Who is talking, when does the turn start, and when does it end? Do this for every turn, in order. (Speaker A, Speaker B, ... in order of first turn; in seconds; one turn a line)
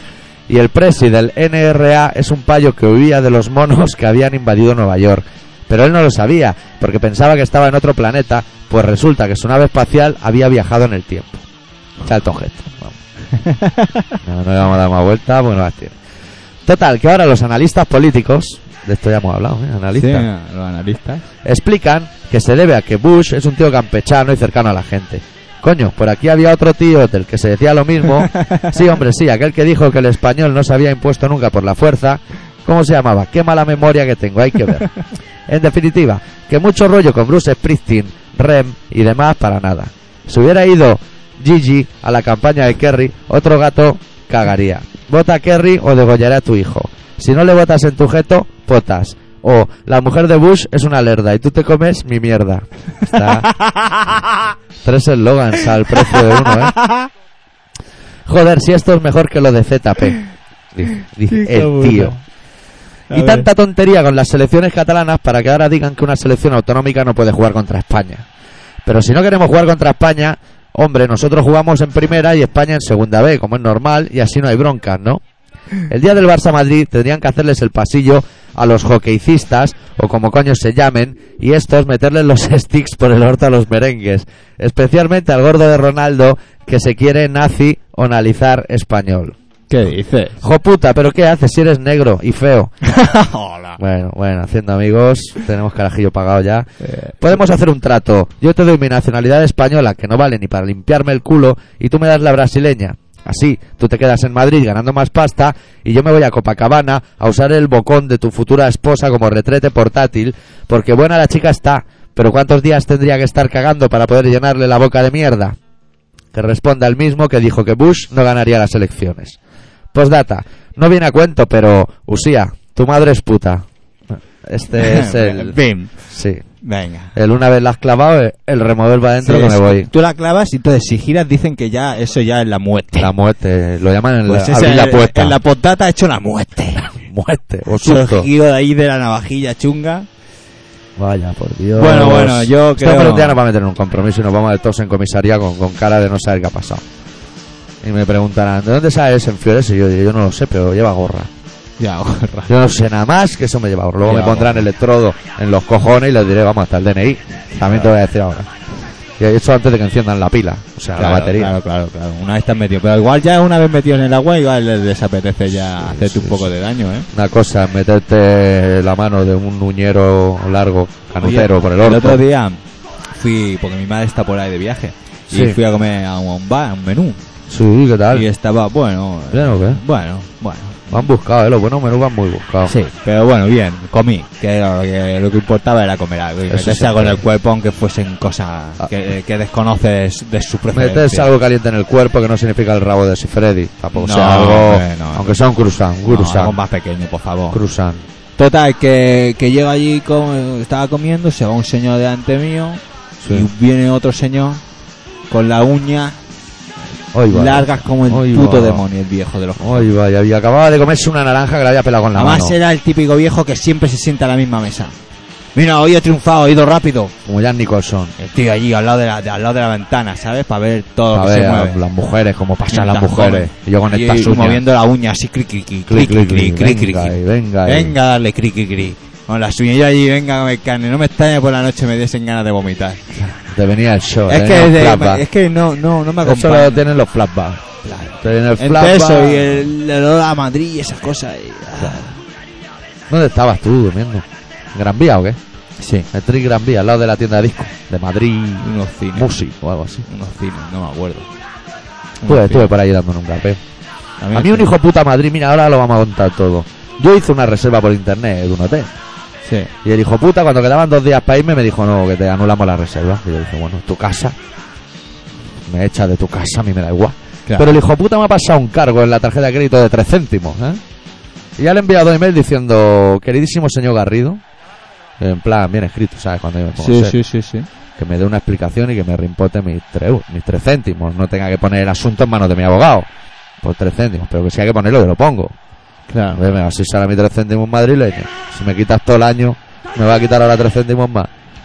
Speaker A: 0.5-11.4
Speaker A: 12.0-13.0
Speaker B: 13.3-14.2
Speaker A: 14.2-16.0
Speaker A: 16.6-20.3
Speaker B: 20.0-21.2
Speaker A: 21.4-34.9
Speaker A: 35.5-53.5
Speaker B: 53.4-54.1
Speaker A: 54.8-56.8
Speaker B: 56.5-57.1
Speaker A: 58.3-60.2
Speaker A: 60.7-62.2
Speaker B: 61.3-62.2
Speaker B: 63.1-63.5
Speaker A: 63.1-68.3
Speaker A: 68.8-75.2
Speaker A: 75.9-89.4
Speaker B: 89.7-90.4
Speaker A: 90.4-92.7
Speaker B: 92.8-93.8
Speaker A: 93.8-115.6
Speaker B: 96.8-97.2
Speaker A: 116.3-119.4
Speaker A: 119.9-126.4
Speaker B: 124.8-126.0
Speaker B: 126.6-127.1
Speaker A: 127.2-129.9
Speaker B: 129.2-133.1
Speaker A: 133.0-135.4
Speaker B: 134.3-136.9
Speaker A: 136.8-138.3
Speaker B: 137.7-140.1
Speaker A: 141.0-146.8
Speaker B: 141.8-143.4
Speaker A: 147.8-151.3
Speaker B: 151.8-152.5
Speaker A: 152.5-158.5
Speaker B: 154.0-154.7
Speaker B: 157.7-157.9
Speaker A: 159.2-161.5
Speaker B: 161.0-167.1
Speaker A: 165.9-166.5
Speaker A: 167.1-172.2
Speaker B: 171.2-177.2
Speaker A: 175.3-175.6
Speaker A: 177.5-178.3
Speaker B: 178.1-181.1
Speaker A: 179.3-179.8
Speaker A: 180.9-182.7
Speaker B: 182.7-191.3
Speaker A: 186.5-187.2
Speaker A: 190.7-196.6
Speaker B: 193.9-195.3
Speaker B: 196.1-197.6
Speaker A: 197.5-198.1
Speaker B: 198.4-204.6
Speaker A: 203.2-203.5
Speaker B: 205.3-206.2
Speaker A: 207.1-208.8
Speaker B: 207.3-209.9
Speaker A: 209.6-212.6
Speaker B: 212.1-215.0
Speaker B: 215.6-217.1
Speaker A: 217.2-218.1
Speaker B: 218.2-221.8
Speaker A: 221.1-224.6
Speaker B: 222.7-233.0
Speaker A: 225.9-227.9
Speaker A: 233.2-235.2
Speaker B: 234.3-236.8
Speaker A: 236.2-237.6
Speaker B: 237.8-242.2
Speaker A: 238.2-239.7
Speaker A: 243.1-245.4
Speaker B: 245.8-246.1
Speaker A: 246.1-250.1
Speaker B: 248.6-249.3
Speaker B: 250.1-251.3
Speaker B: 252.2-252.7
Speaker A: 252.3-253.6
Speaker B: 254.2-254.7
Speaker A: 254.3-258.9
Speaker B: 259.4-259.7
Speaker A: 259.8-264.3
Speaker A: 265.7-270.8
Speaker B: 267.5-267.8
Speaker A: 271.6-274.4
Speaker A: 275.2-277.2
Speaker B: 276.8-277.7
Speaker A: 278.0-283.1
Speaker A: 283.6-285.6
Speaker B: 286.1-286.4
Speaker A: 286.3-291.3